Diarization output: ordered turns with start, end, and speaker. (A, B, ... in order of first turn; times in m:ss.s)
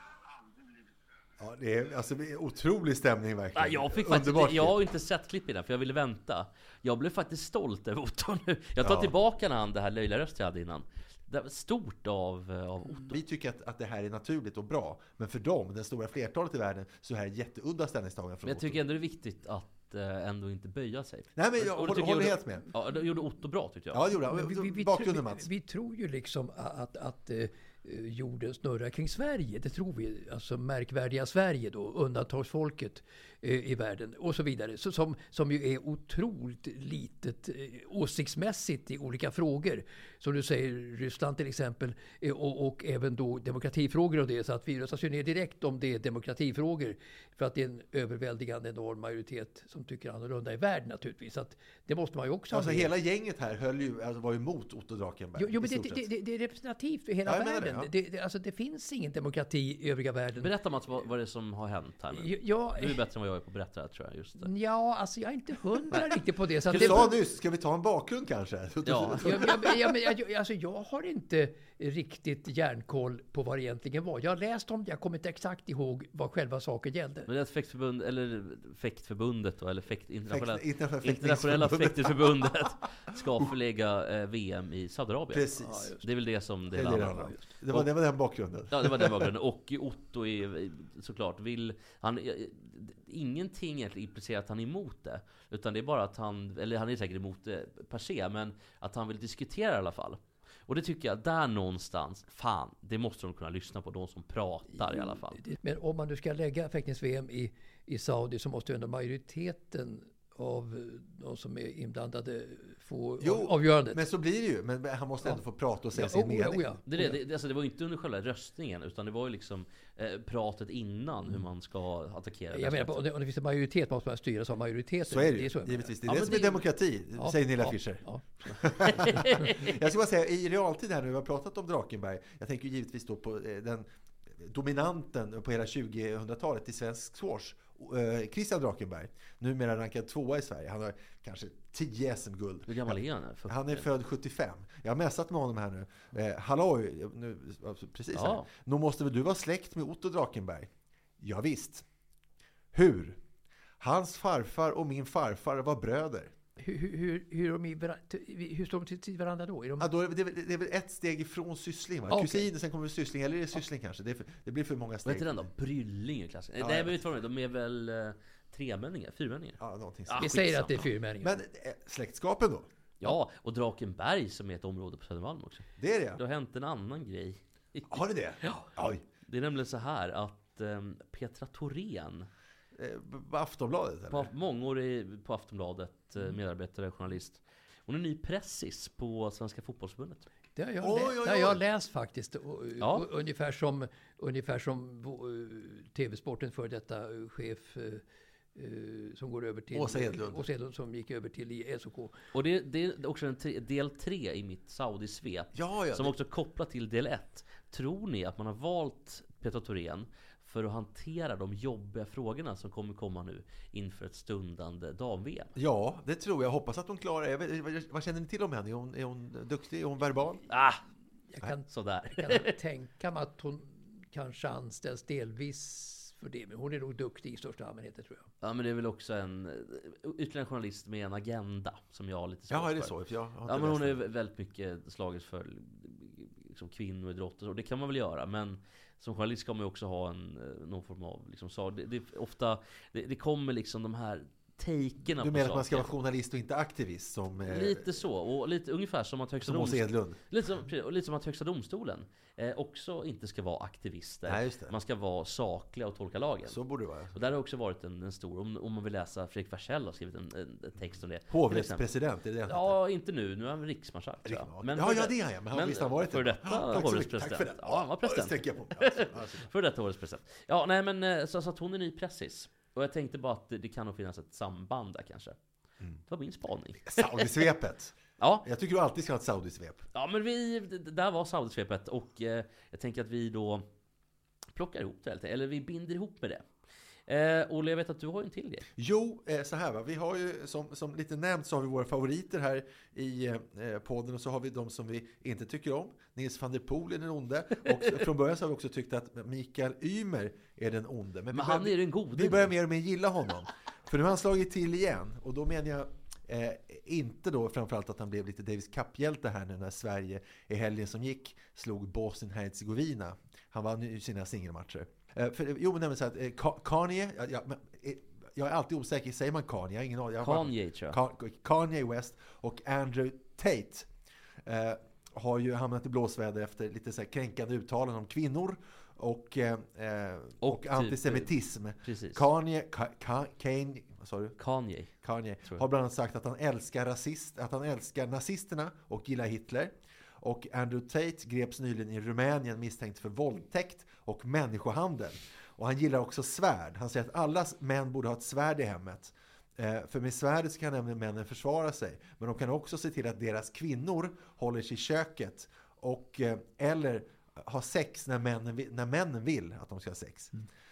0:01.4-0:04.8 A
0:03.6-0:13.2 B
0:08.8-0:09.1 A
0:13.1-0:18.8 A
0:18.4-0:24.0 B
0:21.4-0:22.6 A
0:23.9-0:25.5 A
0:24.3-0:52.9 C
0:52.5-0:56.0 A
0:55.4-1:00.5 C
0:57.2-0:57.9 A
1:00.4-1:04.5 B
1:02.1-1:03.0 C
1:04.4-1:07.2 C
1:06.7-1:07.1 B
1:06.7-1:09.8 A
1:08.8-1:09.4 B
1:09.2-1:17.3 C
1:17.3-1:27.9 B
1:20.3-1:22.5 A
1:25.3-1:25.9 A
1:25.6-1:26.0 C
1:26.7-1:29.3 A
1:28.7-1:45.4 B
1:44.8-1:54.0 C
1:53.2-1:56.8 A
1:55.9-1:56.8 C
1:56.8-2:03.0 B
2:02.5-2:05.9 C
2:05.0-2:13.9 A
2:06.0-2:06.6 B
2:07.2-2:08.2 C
2:08.8-2:09.7 B
2:08.9-2:09.3 C
2:14.4-2:31.8 A
2:22.7-2:23.8 B
2:28.1-2:28.5 B
2:32.7-2:33.2 A
2:33.8-2:36.3 A
2:36.6-2:39.9 C
2:39.8-2:45.4 A
2:42.1-2:42.5 C
2:45.0-2:50.9 B
2:46.6-2:47.0 A
2:49.6-2:50.4 A
2:50.2-2:51.4 C
2:51.2-2:52.7 A
2:53.0-2:55.6 B
2:55.8-2:56.2 A
2:56.2-2:58.6 B
2:57.9-2:59.0 A
2:59.3-3:02.3 B
3:02.7-3:04.3 A
3:04.1-3:10.2 B
3:10.6-3:18.0 C
3:10.8-3:11.6 A
3:12.8-3:13.0 B
3:18.6-3:22.1 C
3:19.7-3:20.4 A
3:22.3-3:35.5 B
3:25.5-3:26.1 A
3:35.6-3:40.4 A
3:40.5-3:40.8 B
3:41.3-3:48.3 C
3:41.7-3:42.5 B
3:48.4-3:52.9 B
3:52.5-3:54.0 A
3:53.4-4:05.9 B
4:05.2-4:07.9 A
4:07.5-4:16.6 B
4:09.4-4:10.2 A
4:14.2-4:14.8 A
4:16.5-4:17.2 A
4:17.1-4:21.8 B
4:21.3-4:22.8 A
4:22.5-4:35.4 B
4:24.2-4:29.5 A
4:36.1-4:37.4 B
4:36.8-4:39.8 A
4:38.2-4:38.4 B
4:39.9-4:43.6 B
4:44.5-4:46.4 B
4:47.1-4:48.7 B
4:48.8-5:23.9 A
5:01.3-5:02.6 B
5:20.2-5:21.0 B
5:24.4-5:34.4 A
5:30.4-5:31.3 B
5:31.8-5:32.2 B
5:34.4-5:34.9 B
5:35.0-6:00.3 A